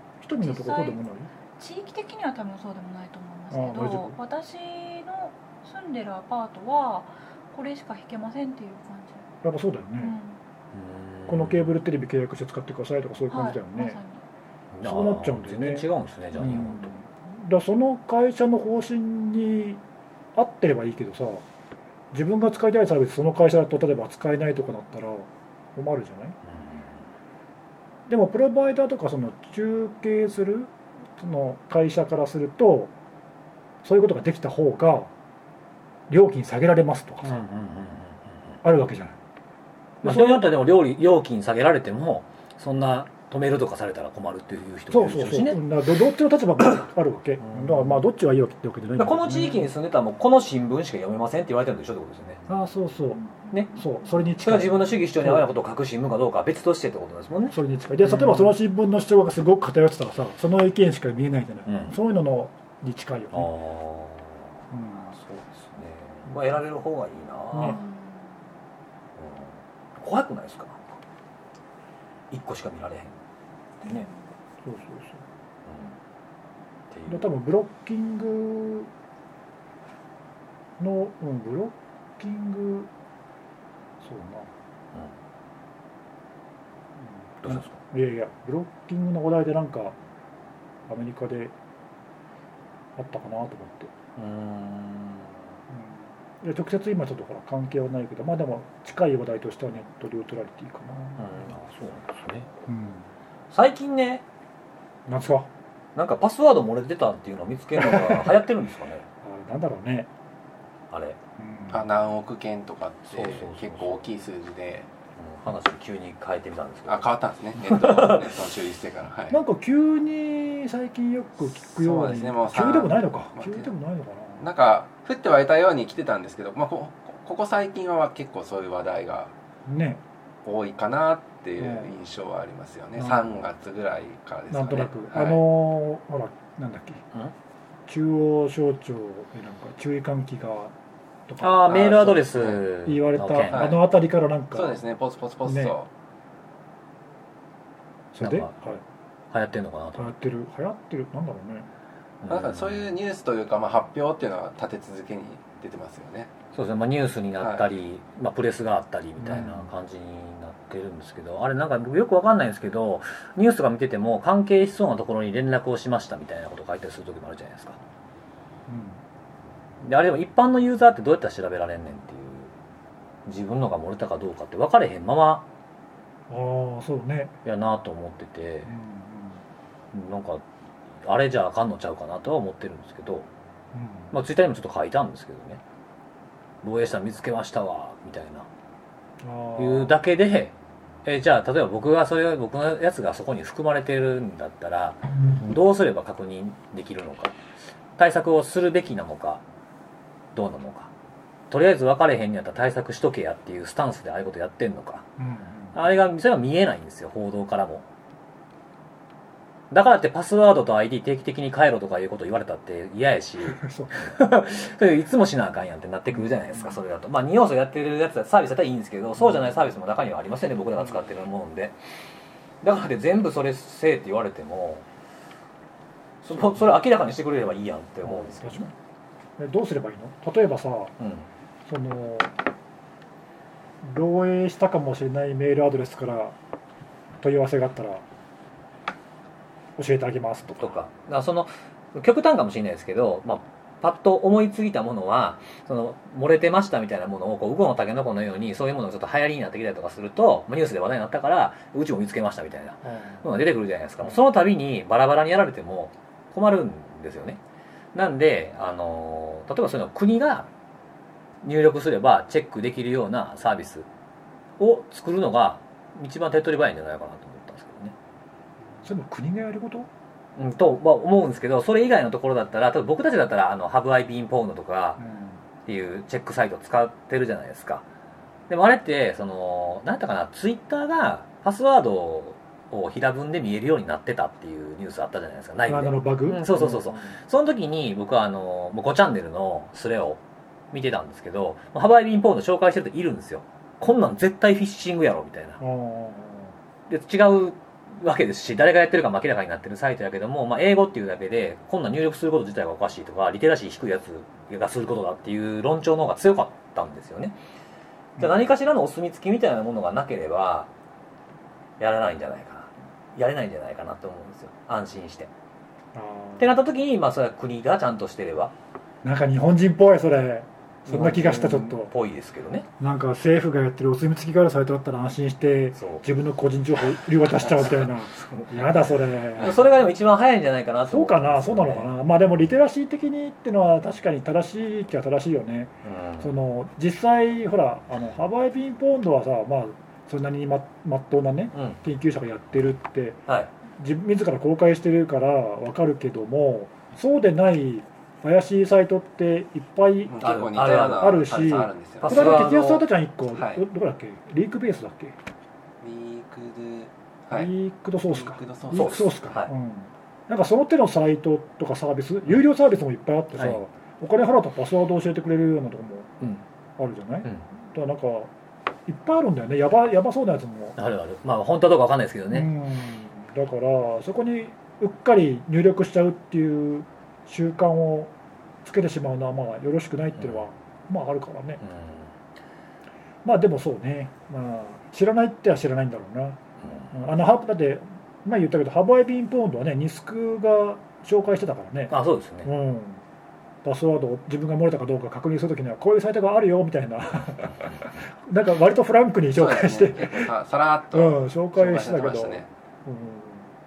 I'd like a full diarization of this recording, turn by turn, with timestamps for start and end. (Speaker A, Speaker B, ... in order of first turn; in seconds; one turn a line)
Speaker A: 0.2-1.3
Speaker B: 0.4-1.0
Speaker B: 1.6-9.2
Speaker A: 3.5-4.2
Speaker A: 9.4-10.2
Speaker B: 10.0-10.4
Speaker C: 10.7-11.7
Speaker A: 11.3-14.0
Speaker B: 13.3-14.2
Speaker C: 14.7-16.9
Speaker A: 14.8-19.8
Speaker A: 20.3-21.4
Speaker A: 22.1-26.4
Speaker C: 26.5-26.9
Speaker A: 28.1-32.9
Speaker A: 33.8-35.1
Speaker A: 36.1-37.4
Speaker C: 37.2-38.5
Speaker A: 38.6-39.1
Speaker A: 40.0-40.5
Speaker C: 40.0-45.6
Speaker A: 44.9-49.7
Speaker C: 47.4-48.0
Speaker C: 49.0-52.4
Speaker A: 52.5-55.5
Speaker C: 53.5-53.8
Speaker C: 54.4-58.5
Speaker A: 57.5-63.5
Speaker C: 61.6-62.0
Speaker C: 63.3-64.5
Speaker A: 64.7-65.1
Speaker C: 65.0-67.8
Speaker A: 67.5-67.8
Speaker B: 67.6-68.4
Speaker C: 69.2-70.8
Speaker C: 72.3-73.2
Speaker B: 73.8-74.2
Speaker A: 74.6-75.2
Speaker C: 75.7-76.0
Speaker C: 76.9-77.3
Speaker A: 77.1-78.9
Speaker A: 80.8-82.9
Speaker A: 84.0-84.5
Speaker A: 87.0-90.0
Speaker C: 87.4-87.7
Speaker A: 90.9-91.5
Speaker A: 93.0-93.9
Speaker C: 94.2-95.4
Speaker A: 95.7-101.5
Speaker C: 101.2-102.5
Speaker A: 102.7-103.0
Speaker C: 103.5-104.2
Speaker A: 105.1-105.5
Speaker C: 106.0-109.0
Speaker A: 107.8-108.3
Speaker A: 109.2-110.1
Speaker C: 110.9-111.2
Speaker A: 111.4-111.8
Speaker D: 111.7-114.9
Speaker C: 113.1-114.1
Speaker C: 115.2-117.0
Speaker D: 116.8-119.4
Speaker C: 117.6-118.3
Speaker A: 119.3-124.4
Speaker D: 121.7-123.7
Speaker D: 124.4-129.3
Speaker A: 129.7-130.0
Speaker D: 130.4-135.4
Speaker A: 131.6-131.9
Speaker A: 133.0-133.4
Speaker A: 134.5-137.0
Speaker A: 137.9-140.7
Speaker A: 141.3-141.7
Speaker C: 141.4-143.8
Speaker D: 141.7-142.6
Speaker A: 142.8-144.8
Speaker D: 143.5-143.8
Speaker D: 144.5-145.9
Speaker A: 145.4-145.7
Speaker A: 148.1-148.8
Speaker C: 148.2-148.8
Speaker C: 149.3-150.1
Speaker A: 150.0-151.7
Speaker C: 152.2-152.9
Speaker D: 152.3-156.3
Speaker C: 156.5-167.8
Speaker D: 157.4-157.7
Speaker A: 159.2-159.7
Speaker A: 168.7-169.0
Speaker C: 169.8-172.5
Speaker C: 173.2-175.4
Speaker A: 176.3-177.3
Speaker C: 177.4-178.7
Speaker A: 178.7-179.4
Speaker C: 179.9-180.4
Speaker C: 181.0-183.3
Speaker A: 183.7-184.1
Speaker C: 184.1-185.6
Speaker C: 186.6-188.5
Speaker A: 189.2-189.9
Speaker C: 189.6-190.5
Speaker C: 191.0-197.4
Speaker C: 198.0-199.4
Speaker C: 200.3-200.9
Speaker C: 201.5-205.0
Speaker A: 205.2-205.8
Speaker C: 205.7-207.8
Speaker C: 209.7-221.8
Speaker A: 213.5-214.2
Speaker A: 216.1-216.8
Speaker C: 222.6-224.8
Speaker C: 226.2-228.6
Speaker A: 228.0-228.7
Speaker A: 229.4-230.9
Speaker C: 231.0-231.3
Speaker A: 231.7-232.3
Speaker A: 233.8-236.3
Speaker A: 237.2-238.0
Speaker A: 239.8-240.7
Speaker C: 240.6-257.4
Speaker A: 252.8-253.2
Speaker C: 257.9-260.5
Speaker C: 261.4-263.9
Speaker C: 264.6-267.9
Speaker A: 268.8-269.9
Speaker C: 270.4-275.0
Speaker A: 275.0-275.4
Speaker C: 275.6-277.8
Speaker C: 278.5-290.2
Speaker A: 285.7-287.1
Speaker C: 290.7-295.6
Speaker A: 295.6-296.5
Speaker C: 296.9-307.4
Speaker A: 308.2-308.5
Speaker C: 308.2-310.7
Speaker C: 311.8-315.3
Speaker A: 315.9-316.6
Speaker C: 316.4-318.5
Speaker A: 319.0-321.9
Speaker C: 320.9-322.7
Speaker A: 322.8-329.6
Speaker C: 325.8-326.0
Speaker C: 327.5-328.6
Speaker C: 329.4-331.9
Speaker A: 330.9-343.2
Speaker C: 335.8-336.3
Speaker C: 341.5-341.8
Speaker A: 343.8-350.3
Speaker D: 350.0-352.8
Speaker C: 350.2-351.3
Speaker A: 350.9-355.1
Speaker C: 352.0-352.8
Speaker D: 353.3-353.6
Speaker D: 355.8-359.2
Speaker A: 357.3-366.2
Speaker C: 358.7-359.5
Speaker A: 366.8-368.3
Speaker A: 368.9-370.8
Speaker C: 370.8-372.5
Speaker A: 372.3-378.1
Speaker A: 378.6-381.6
Speaker C: 380.2-380.4
Speaker C: 381.6-382.1
Speaker A: 383.2-386.4
Speaker C: 386.6-386.9
Speaker A: 386.9-393.0
Speaker C: 391.9-392.5
Speaker A: 393.6-400.3
Speaker D: 399.3-402.5
Speaker A: 400.9-403.5